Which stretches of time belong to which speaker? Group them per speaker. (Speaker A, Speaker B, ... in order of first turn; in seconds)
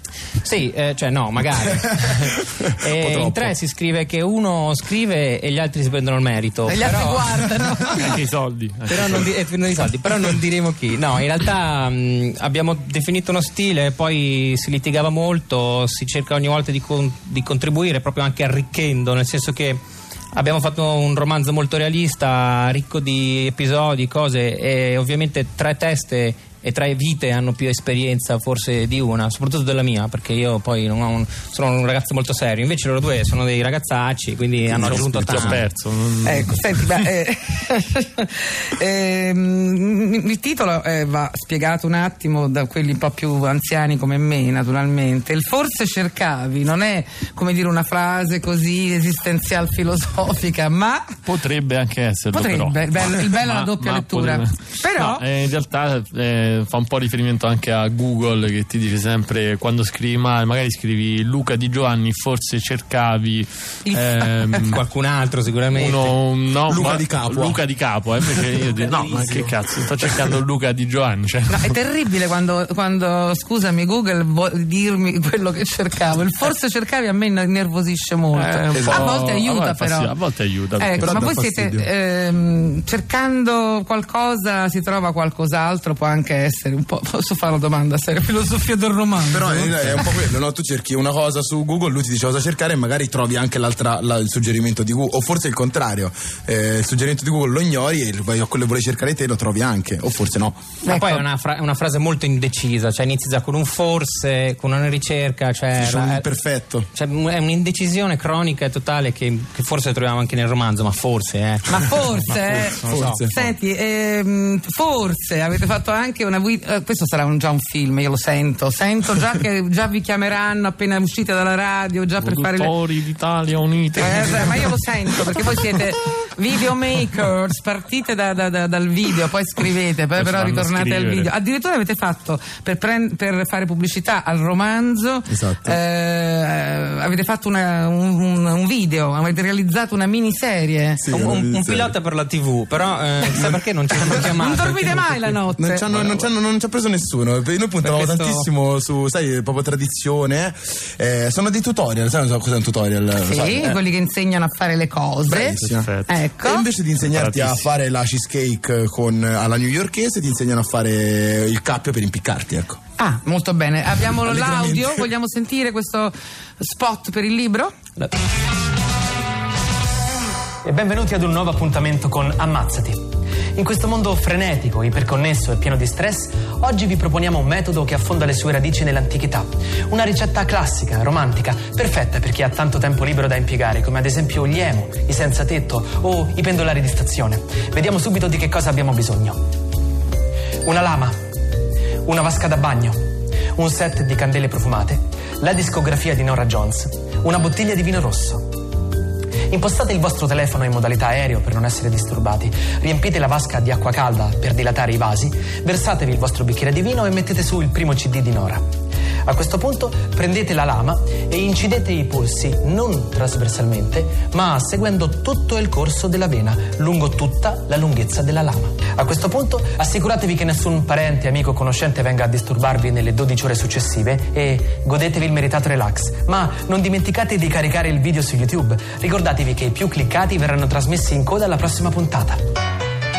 Speaker A: 0.4-7.2, 8.9-35.6, 64.6-66.2, 68.8-69.5, 100.8-106.2, 106.9-111.7, 112.6-113.2, 141.1-145.2, 147.8-148.5
Speaker B: 2.9-3.5, 34.7-35.6, 66.7-67.6, 78.7-79.1, 81.0-81.9, 89.3-100.6, 105.8-106.9, 112.8-113.4, 135.3-135.8, 141.0-141.9, 145.6-153.8, 155.3-162.8, 164.2-165.1
Speaker C: 6.7-8.2, 36.2-51.1, 52.3-55.2, 63.9-64.5, 71.5-80.2, 80.8-90.1, 100.9-101.2, 111.7-122.8, 123.9-141.0, 144.2-146.3, 153.2-156.7, 163.0-167.7
Speaker D: 8.0-9.3, 34.8-37.1, 51.2-64.8, 65.7-71.8, 78.3-81.3, 122.2-124.8, 130.2-131.3, 155.6-156.2, 157.1-157.7
Speaker E: 170.6-189.4, 190.6-191.1, 192.0-198.7, 199.5-208.6, 209.2-232.4